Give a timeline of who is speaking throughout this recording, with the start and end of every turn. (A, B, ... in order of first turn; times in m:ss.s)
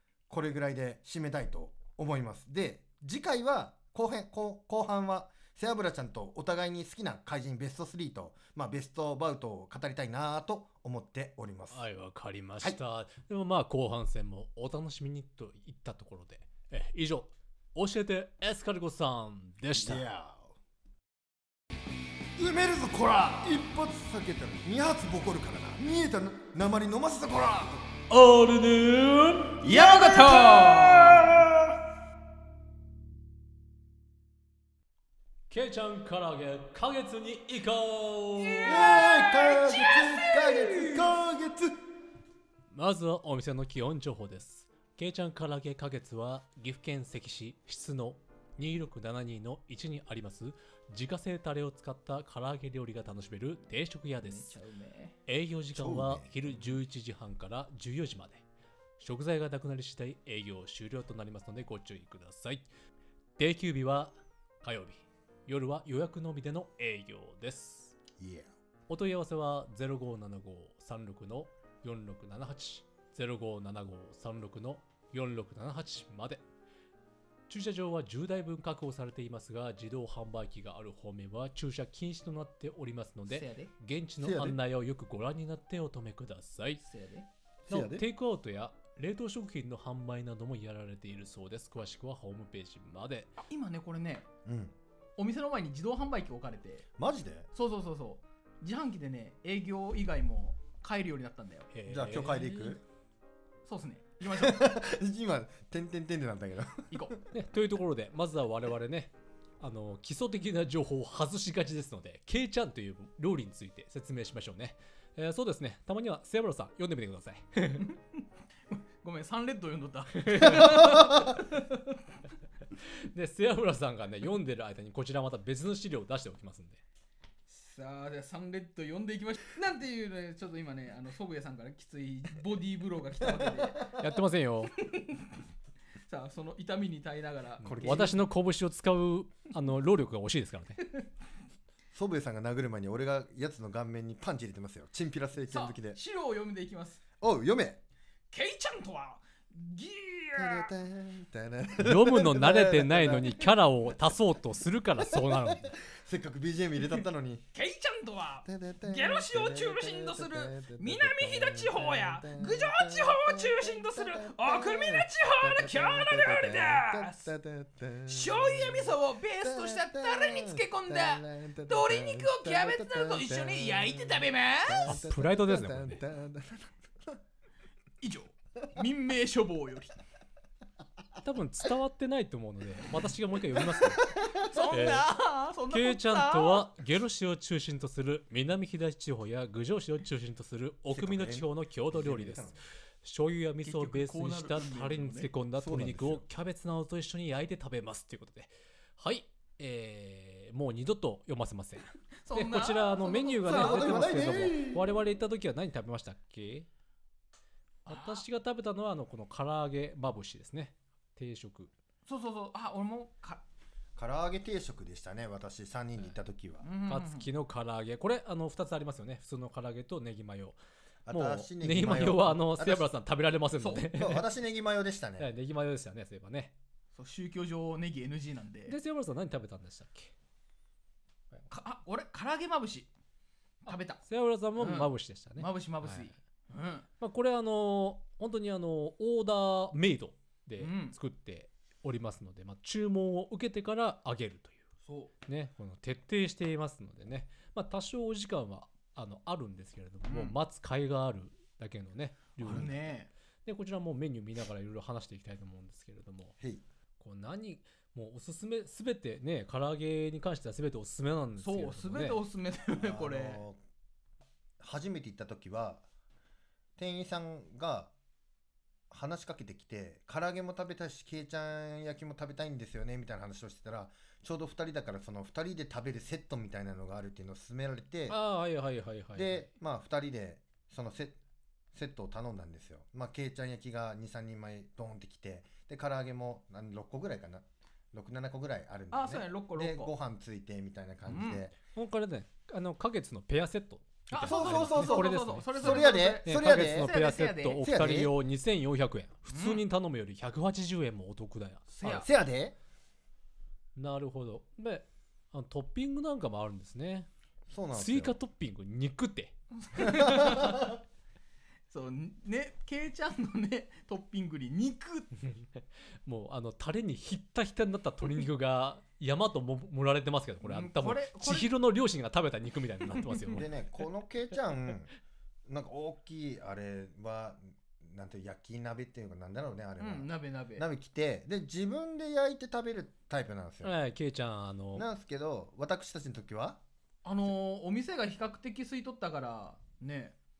0:00.3-0:11.8 A
0:11.7-0:20.0 B
0:19.7-0:20.5 A
0:22.4-0:27.9 A
0:28.1-0:29.6 B
0:29.6-0:31.5 C
0:29.8-0:30.4 A
0:30.4-0:31.3 B
0:35.5-0:39.1 B
0:38.4-0:40.9 C
0:38.6-0:41.7 A
0:42.7-0:54.6 B
0:54.2-0:55.1 C
0:55.3-0:58.4 B
0:55.7-0:56.3 A
0:59.0-1:02.7 B
1:03.4-1:08.0 B
1:08.2-1:08.5 A
1:08.9-1:16.4 B
1:17.5-1:26.8 B
1:23.3-1:23.7 C
1:24.2-1:24.6 A
1:26.8-1:27.3 C
1:27.7-1:28.0 A
1:27.7-1:33.3 B
1:33.5-1:34.2 C
1:34.4-1:34.7 A
1:35.2-1:36.8 C
1:37.0-1:37.5 A
1:37.5-1:41.7 C
1:41.7-1:42.7 B
1:41.9-1:42.8 A
1:43.6-1:44.6 C
1:44.3-1:47.2 A
1:47.3-1:57.9 B
1:58.7-2:02.0 C
2:00.2-2:00.9 B
2:03.0-2:06.8 B
2:07.5-2:13.9 C
2:13.9-2:14.7 B
2:14.8-2:15.3 C
2:16.0-2:18.1 C
2:17.6-2:18.2 A
2:17.6-2:20.8 B
2:21.9-2:26.0 A
2:25.4-2:27.0 C
2:27.2-2:27.8 A
2:28.3-2:30.7 C
2:30.3-2:33.4 A
2:31.8-2:35.8 B
2:35.1-2:37.4 A
2:37.5-2:47.2 C
2:38.4-2:57.2 A
2:48.0-2:54.9 C
2:54.8-2:56.0 B
2:58.0-3:00.0 C
3:01.2-3:04.0 B
3:03.8-3:04.3 A
3:04.3-3:06.7 C
3:04.7-3:05.1 B
3:05.7-3:26.7 B
3:10.9-3:12.6 A
3:13.6-3:15.3 C
3:15.6-3:16.2 A
3:22.2-3:24.2 C
3:23.4-3:24.9 A
3:27.8-3:31.7 B
3:27.9-3:28.2 C
3:32.1-3:33.4 C
3:34.0-3:36.6 A
3:36.6-3:37.3 C
3:36.9-3:40.6 B
3:41.0-3:42.9 A
3:41.1-3:44.2 B
3:43.6-3:43.8 C
3:43.9-3:45.3 A
3:45.2-3:46.5 B
3:47.0-3:48.8 C
3:48.7-3:50.1 B
3:51.5-3:52.9 C
3:53.6-3:54.0 C
3:54.0-3:56.1 B
3:54.6-3:56.9 C
3:57.0-4:04.6 B
4:00.6-4:00.9 C
4:04.8-4:05.1 C
4:05.2-4:12.9 B
4:10.1-4:10.4 C
4:12.4-4:13.1 C
4:13.4-4:16.4 B
4:17.0-4:22.2 B
4:21.4-4:23.4 C
4:22.8-4:23.6 A
4:24.6-4:25.8 A
4:26.8-4:27.9 A
4:28.9-4:38.2 A
4:38.1-4:39.4 B
4:39.1-4:41.2 A
4:41.7-4:51.5 A
4:48.9-4:49.9 C
4:51.0-4:51.4 C
4:51.7-5:02.0 B
4:54.1-4:57.6 C
4:54.2-4:56.9 A
4:57.6-4:58.1 A
4:59.3-4:59.6 C
5:01.7-5:02.1 C
5:01.8-5:02.5 A
5:03.7-5:07.1 B
5:07.5-5:08.1 A
5:07.7-5:09.3 B
5:09.6-5:10.7 C
5:10.0-5:10.3 A
5:11.7-5:15.1 C
5:16.0-5:23.5 B
5:20.4-5:21.5 C
5:23.0-5:23.3 C
5:23.3-5:24.9 A
5:25.4-5:33.7 A
5:29.8-5:30.6 C
5:33.6-5:34.8 B
5:34.7-5:36.6 A
5:37.0-5:40.2 C